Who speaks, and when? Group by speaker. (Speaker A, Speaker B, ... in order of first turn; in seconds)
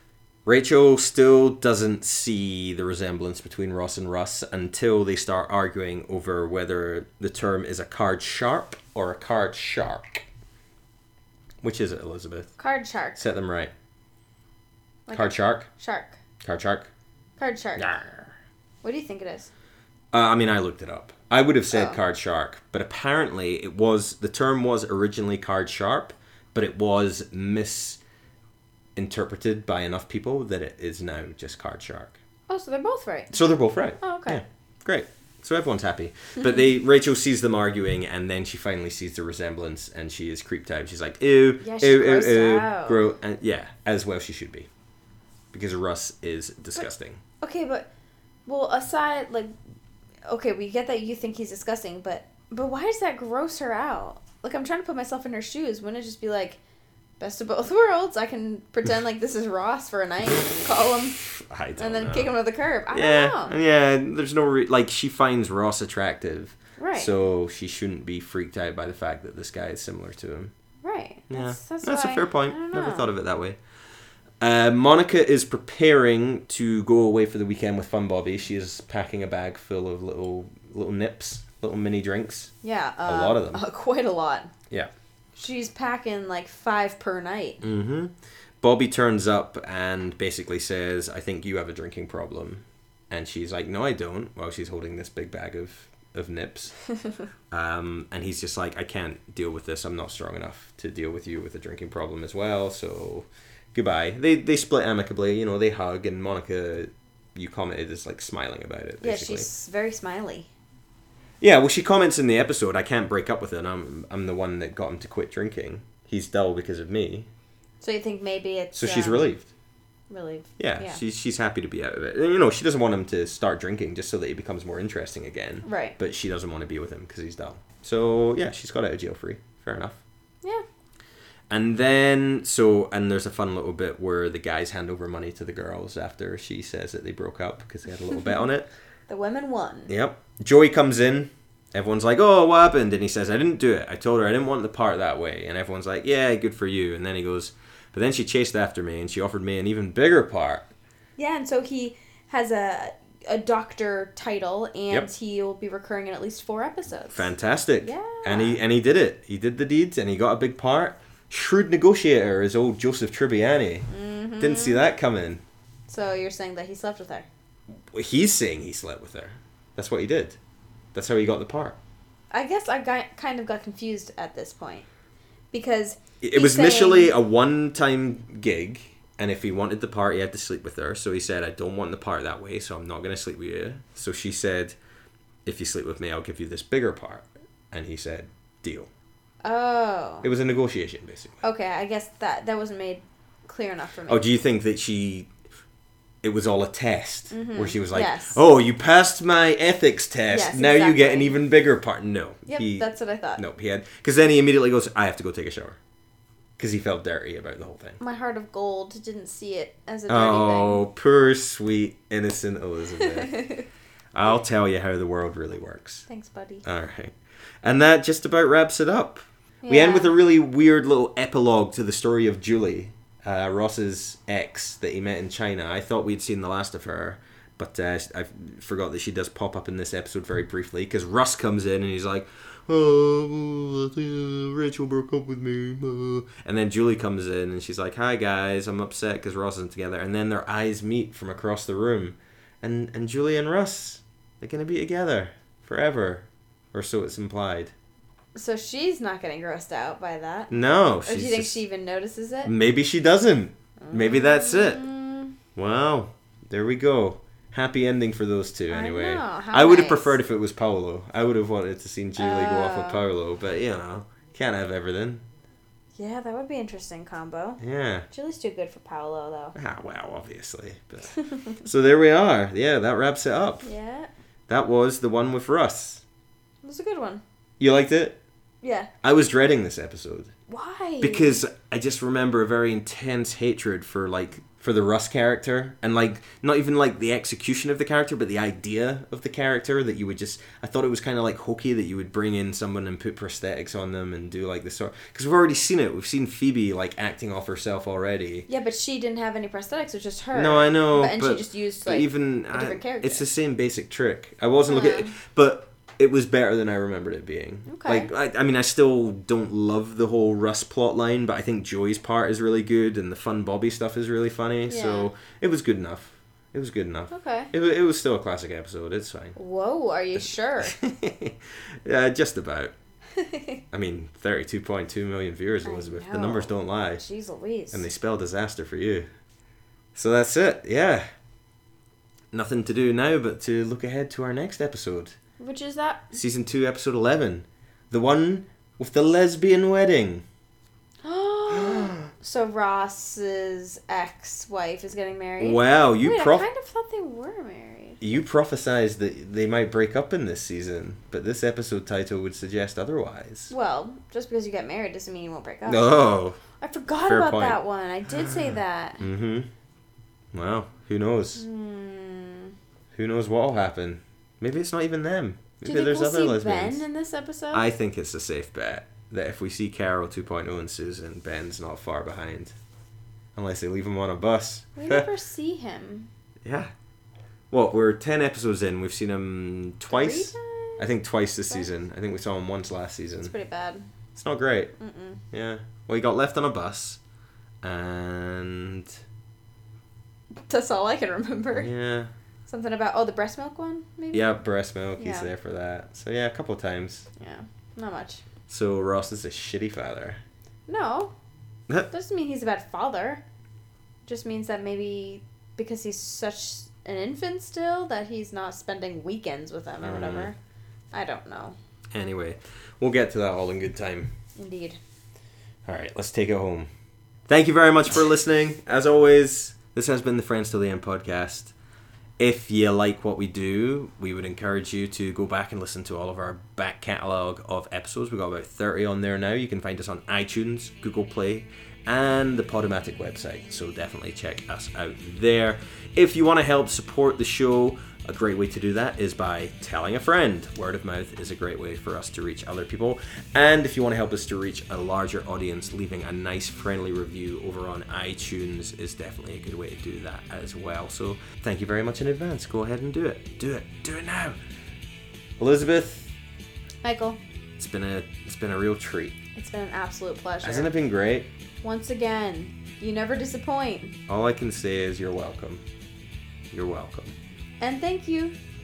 Speaker A: 0.5-10.3, 11.6-12.5, 13.2-13.7, 15.1-15.7, 16.4-16.9, 17.8-18.3, 20.1-28.0, 29.0-32.2, 33.3-44.7, 45.5-47.2, 61.2-62.3, 62.9-70.5, 71.3-73.6, 74.4-82.5, 83.1-83.6, 87.6-96.8, 97.5-109.5, 111.4-117.3, 118.7-119.5, 120.6-130.0, 131.5-138.7, 139.9-150.7, 157.1-163.9, 164.4-165.4, 167.9-170.4, 170.9-171.8, 176.2-184.8, 185.5-188.9, 190.2-191.4, 194.1-195.3, 196.2-205.8, 206.6-208.0, 210.1-213.4, 214.1-216.1, 216.6-247.7, 250.5-251.6, 252.4-254.8, 255.6-265.2, 267.6-268.1, 269.6-271.1, 271.6-273.7, 274.5-276.0, 277.6-278.2, 279.0-280.3, 281.0-298.5, 300.3-319.4, 320.6-322.7, 323.7-327.0, 327.7-329.1, 329.9-331.1, 332.3-335.2, 336.1-340.2, 341.5-342.1, 345.4-346.5, 348.0-353.5, 355.7-356.4, 357.0-359.5, 360.3-361.4, 362.9-366.8, 367.5-372.6, 373.4-375.1, 376.4-376.7, 377.5-383.3, 384.1-384.7, 385.3-387.0, 387.6-388.9, 391.5-392.1, 394.1-397.1, 398.5-400.2, 409.8-410.3, 411.9-414.1, 415.7-416.7, 417.3-421.5, 422.2-454.4, 455.4-456.1, 457.6-459.2, 460.4-461.3, 464.1-465.6, 466.5-467.1
Speaker B: 12.6-13.2, 15.1-16.2, 17.4-17.9, 18.8-19.5, 21.7-22.0, 32.5-33.4, 34.0-34.4, 41.6-43.0, 47.4-47.9, 48.5-49.5, 50.3-56.6, 57.2-61.2, 61.8-63.5, 66.8-67.1, 70.8-73.1, 82.6-84.5, 85.4-87.6, 109.0-110.5, 117.8-119.2, 120.1-121.0, 125.7-126.0, 139.1-139.9, 151.2-157.3, 157.8-158.6, 163.9-164.9, 165.9-167.3, 172.3-174.9, 175.5-177.2, 189.4-190.3, 191.4-194.2, 197.3-198.4, 200.3-201.4, 202.5-203.4, 208.0-210.8, 213.0-213.7, 216.1-216.6, 219.6-220.1, 248.3-252.5, 253.8-255.3, 258.7-260.2, 262.2-263.1, 266.0-269.6, 271.3-271.6, 273.6-274.1, 276.6-277.2, 278.6-278.9, 280.5-281.4, 298.5-303.2, 304.6-305.1, 307.7-308.1, 314.7-315.1, 317.1-317.5, 319.4-320.8, 323.1-323.6, 325.6-327.9, 335.4-336.2, 341.0-348.0, 353.5-356.1, 356.6-359.1, 361.4-362.5, 365.6-367.7, 374.8-376.1, 379.9-380.9, 383.2-383.9, 384.8-385.2, 390.5-391.7, 392.5-394.3, 395.0-395.3, 397.2-398.2, 400.7-401.1, 401.9-403.2, 404.1-410.4, 410.9-411.6, 414.4-414.8, 456.8-457.2, 459.4-460.7, 461.6-464.0, 467.6-468.4